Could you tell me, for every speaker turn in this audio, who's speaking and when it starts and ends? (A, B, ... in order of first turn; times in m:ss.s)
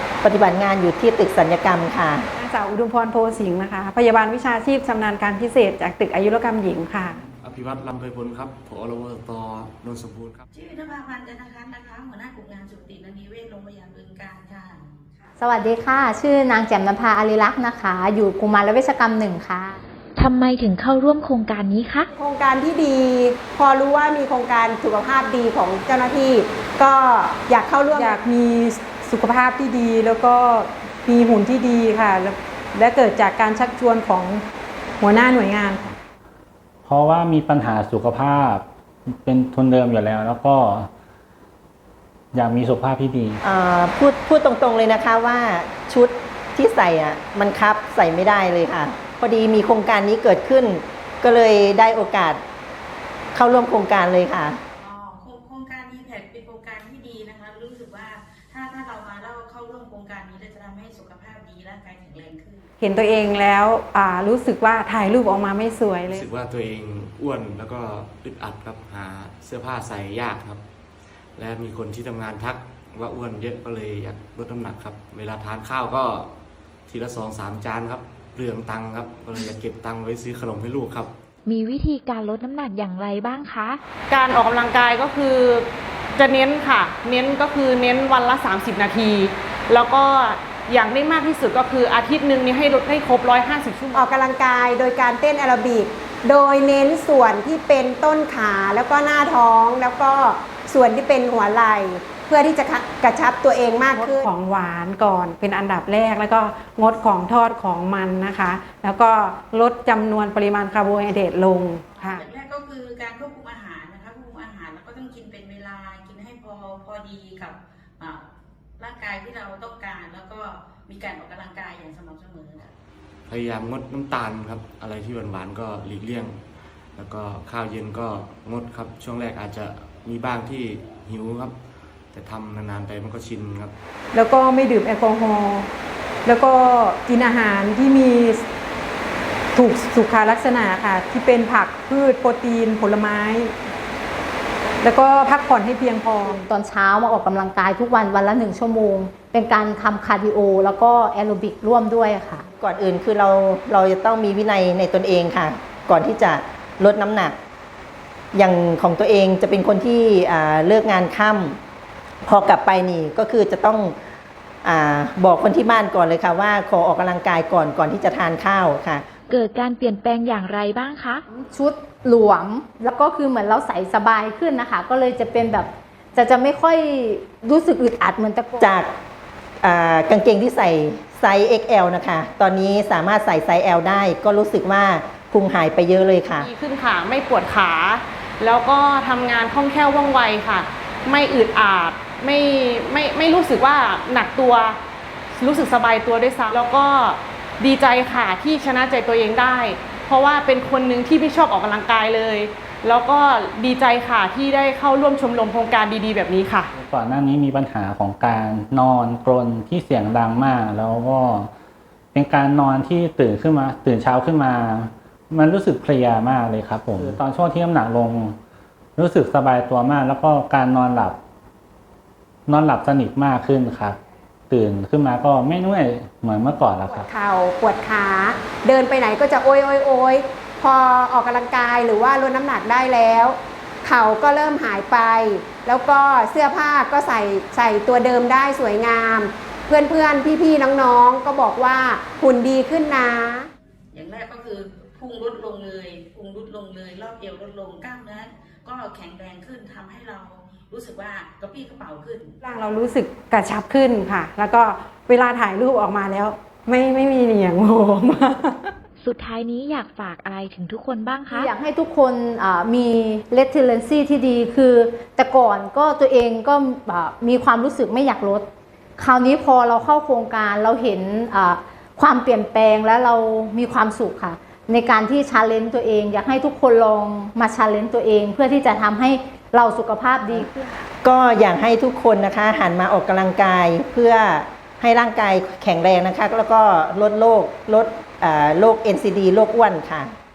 0:00.2-0:02.3 A
0:02.4-0:07.2 B
0:07.4-0:10.4 C
0:10.5-0:15.1 D
0:15.4-0:19.8 E
0:20.2-0:22.1 F
0:22.2-0:27.9 G
0:27.9-0:34.4 B
0:35.0-0:35.9 B
0:36.8-0:38.6 H
0:39.2-0:40.9 H
0:42.3-0:43.4 H
0:43.4-0:52.4 A
0:53.3-0:54.6 A
0:54.8-1:02.6 D
1:02.8-1:06.3 B
1:06.1-1:10.6 C
1:11.4-1:16.3 C
1:16.9-1:21.1 C
1:21.4-1:23.8 F
1:24.1-1:34.2 I
1:34.2-1:43.8 G
1:43.9-1:52.2 B
1:51.9-1:58.3 D
1:58.8-2:02.7 D
2:03.3-2:06.4 C
2:07.0-2:11.5 C
2:12.1-2:13.8 C
2:14.1-2:15.7 B
2:16.2-2:18.4 B
2:19.5-2:23.5 B
2:24.8-2:26.4 B
2:26.2-2:32.4 E
2:32.6-2:37.4 A
2:38.3-2:41.6 A
2:42.2-2:44.0 A
2:44.6-2:49.0 A
2:49.3-2:51.2 F
2:51.3-2:58.7 E
2:58.6-2:58.9 A
2:59.6-3:06.5 A
3:06.4-3:14.8 I
3:15.4-3:26.7 I
3:26.7-3:31.5 H
3:32.1-3:38.4 H
3:39.0-3:41.2 H
3:42.5-3:44.0 H
3:44.5-3:47.1 H
3:47.1-4:03.4 G
4:03.9-4:12.3 D
4:12.4-4:18.7 B
4:19.0-4:21.5 F
4:21.3-4:28.4 E
4:29.0-4:40.8 E
4:41.0-4:50.1 A